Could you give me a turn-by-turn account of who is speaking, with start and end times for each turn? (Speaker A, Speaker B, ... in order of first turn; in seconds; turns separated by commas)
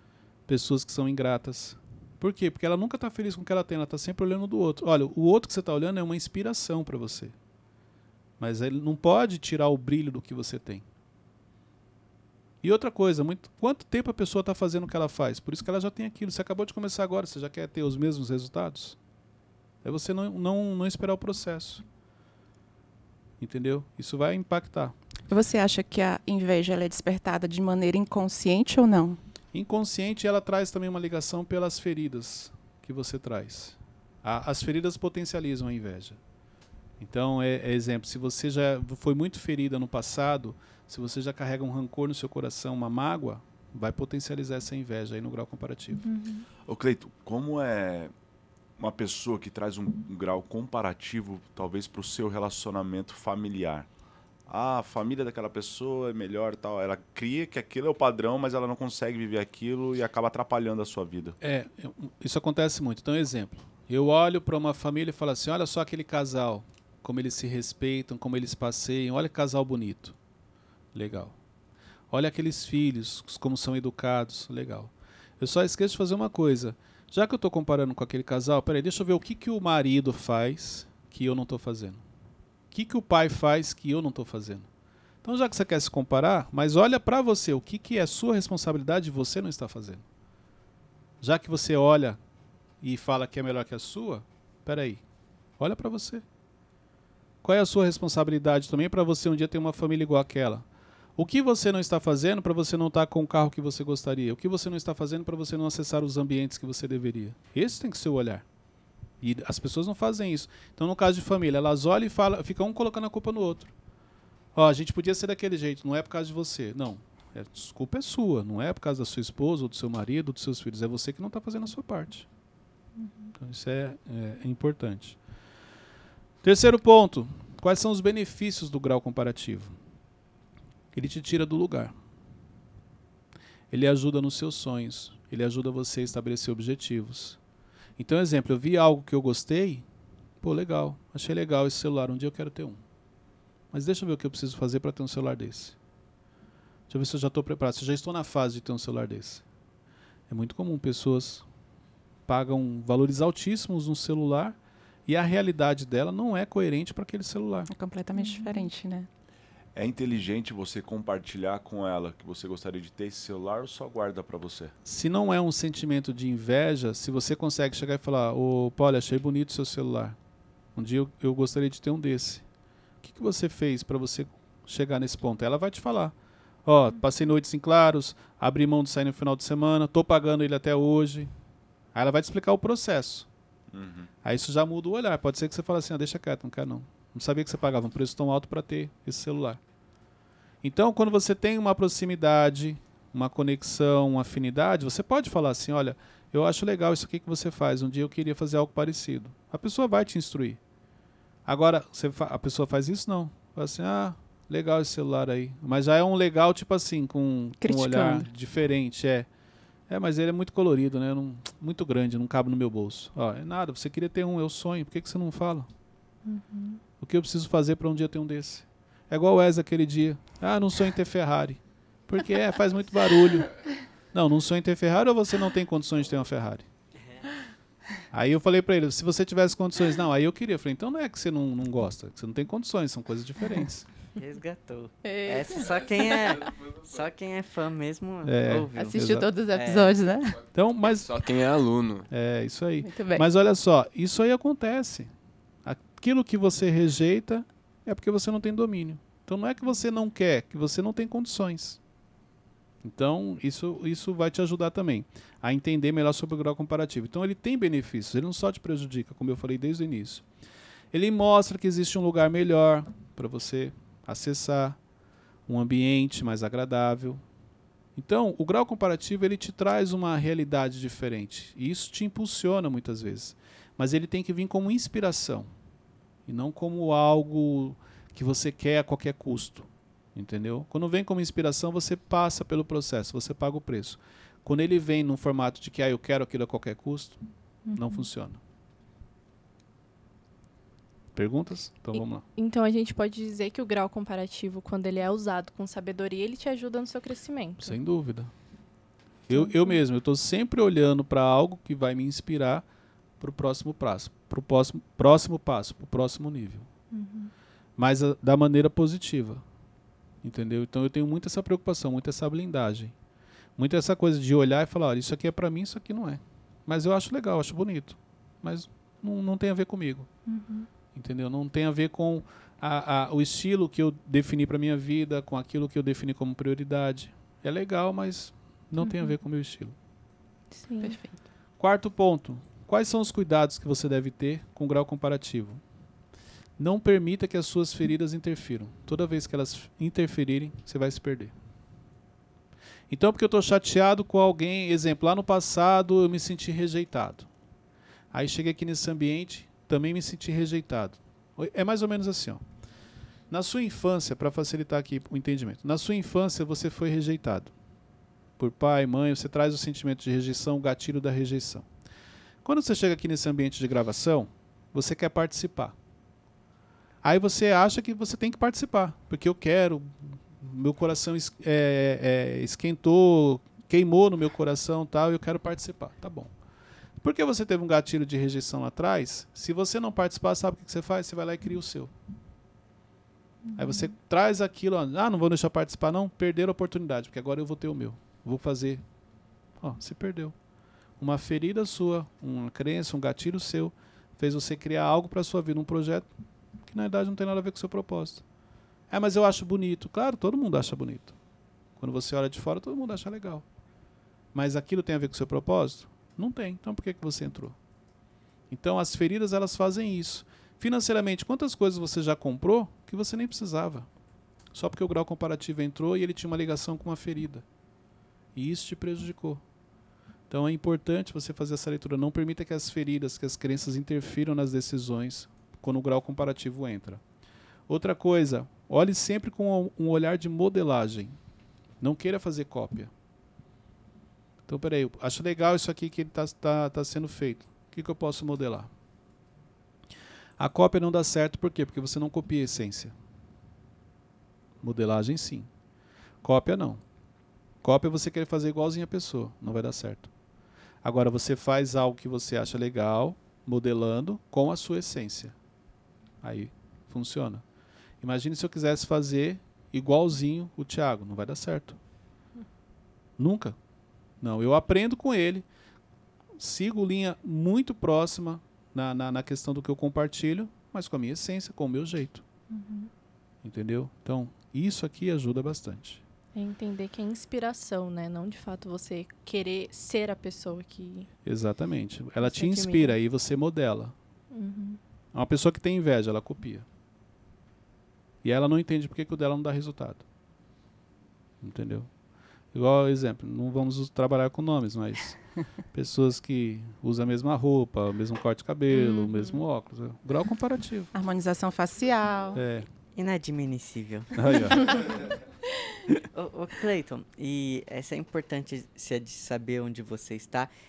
Speaker A: 0.5-7.3, Speaker A: 8.4-10.8, Speaker A: 12.6-19.0, Speaker A: 19.8-21.8, Speaker A: 23.4-24.9, Speaker B: 25.3-29.2, Speaker A: 29.5-36.2, Speaker A: 37.0-46.0, Speaker C: 46.0-46.5, Speaker D: 46.7-48.1, Speaker D: 48.8-53.9, Speaker D: 54.5-61.4, Speaker A: 61.4-70.2, Speaker A: 70.9-71.3, Speaker A: 72.1-82.0, Speaker A: 82.7-84.7, Speaker A: 85.2-90.0, Speaker A: 91.2-92.2, Speaker A: 92.8-95.0, Speaker A: 95.6-96.2, Speaker A: 97.4-100.7, Speaker A: 101.2-108.5, Speaker A: 109.2-113.7, Speaker A: 114.5-122.3, Speaker C: 123.0-123.3, Speaker A: 123.4-125.2, Speaker A: 126.4-129.7, Speaker A: 130.9-131.9, Speaker A: 133.7-137.4, Speaker A: 138.0-139.8, Speaker A: 140.4-142.8, Speaker A: 143.7-145.8, Speaker A: 146.9-149.4, Speaker A: 150.3-151.4, Speaker A: 152.3-157.7, Speaker B: 157.7-159.1, Speaker C: 158.2-158.7, Speaker D: 159.8-164.7, Speaker A: 164.8-170.2, Speaker A: 170.8-172.4, Speaker A: 173.0-176.2, Speaker A: 176.7-181.3, Speaker A: 181.9-183.3, Speaker D: 183.7-184.1, Speaker A: 184.2-189.6, Speaker A: 190.6-200.6, Speaker A: 201.5-209.3, Speaker B: 207.6-208.3, Speaker A: 209.9-215.7, Speaker C: 216.2-216.8, Speaker A: 217.0-223.6, Speaker A: 224.1-226.7, Speaker A: 228.1-233.9, Speaker E: 234.2-239.0, Speaker B: 235.0-236.1, Speaker F: 235.6-237.1, Speaker A: 238.2-239.3, Speaker B: 238.8-240.4, Speaker E: 239.5-240.0, Speaker A: 240.5-241.1, Speaker F: 240.8-242.1, Speaker A: 242.1-245.1, Speaker B: 242.8-243.2, Speaker A: 245.7-251.8, Speaker A: 252.8-260.2, Speaker A: 260.9-264.8, Speaker A: 265.5-267.2, Speaker A: 268.0-275.5, Speaker A: 276.3-287.2, Speaker C: 287.7-288.1, Speaker A: 287.7-288.4, Speaker A: 291.1-292.2, Speaker C: 291.9-297.8, Speaker A: 297.6-298.3, Speaker A: 299.3-302.7, Speaker C: 299.3-299.8, Speaker A: 303.2-306.7, Speaker C: 306.9-307.3, Speaker A: 307.8-309.4, Speaker A: 310.2-312.9, Speaker A: 313.6-320.1, Speaker C: 320.3-320.7, Speaker A: 320.9-329.7, Speaker C: 328.8-329.1, Speaker C: 330.5-331.0, Speaker B: 330.8-331.2, Speaker A: 331.6-335.6, Speaker A: 336.6-341.3, Speaker A: 342.9-347.3, Speaker A: 348.1-352.4, Speaker A: 353.3-357.5, Speaker A: 358.4-361.7, Speaker A: 362.4-365.8, Speaker A: 367.0-376.3, Speaker A: 377.0-381.9, Speaker C: 383.4-383.9, Speaker A: 383.6-388.8, Speaker A: 389.6-390.4, Speaker A: 391.0-396.1, Speaker A: 396.7-398.2, Speaker A: 398.9-401.2, Speaker A: 401.8-403.4, Speaker A: 404.3-407.6, Speaker A: 408.5-413.9, Speaker A: 414.5-417.4, Speaker A: 418.4-419.4, Speaker A: 420.3-427.0, Speaker A: 427.7-431.1, Speaker A: 431.8-432.9, Speaker A: 434.5-438.7, Speaker A: 440.4-442.9, Speaker A: 444.6-445.5, Speaker A: 446.2-446.8, Speaker A: 447.6-450.1, Speaker A: 450.8-455.4, Speaker A: 456.2-457.4, Speaker A: 458.0-461.8, Speaker A: 463.2-463.6, Speaker A: 464.2-465.5, Speaker A: 466.4-472.2, Speaker C: 472.5-472.9, Speaker A: 473.4-476.0, Speaker C: 476.4-481.1, Speaker A: 481.2-483.9, Speaker C: 482.2-483.0, Speaker C: 484.3-484.8, Speaker A: 485.1-486.7, Speaker A: 488.2-490.0, Speaker A: 491.4-491.9, Speaker A: 492.5-495.2, Speaker A: 495.7-500.9, Speaker C: 498.7-499.4, Speaker B: 500.9-502.4, Speaker A: 502.3-502.7, Speaker E: 502.9-505.1, Speaker A: 504.1-504.8, Speaker E: 506.1-510.5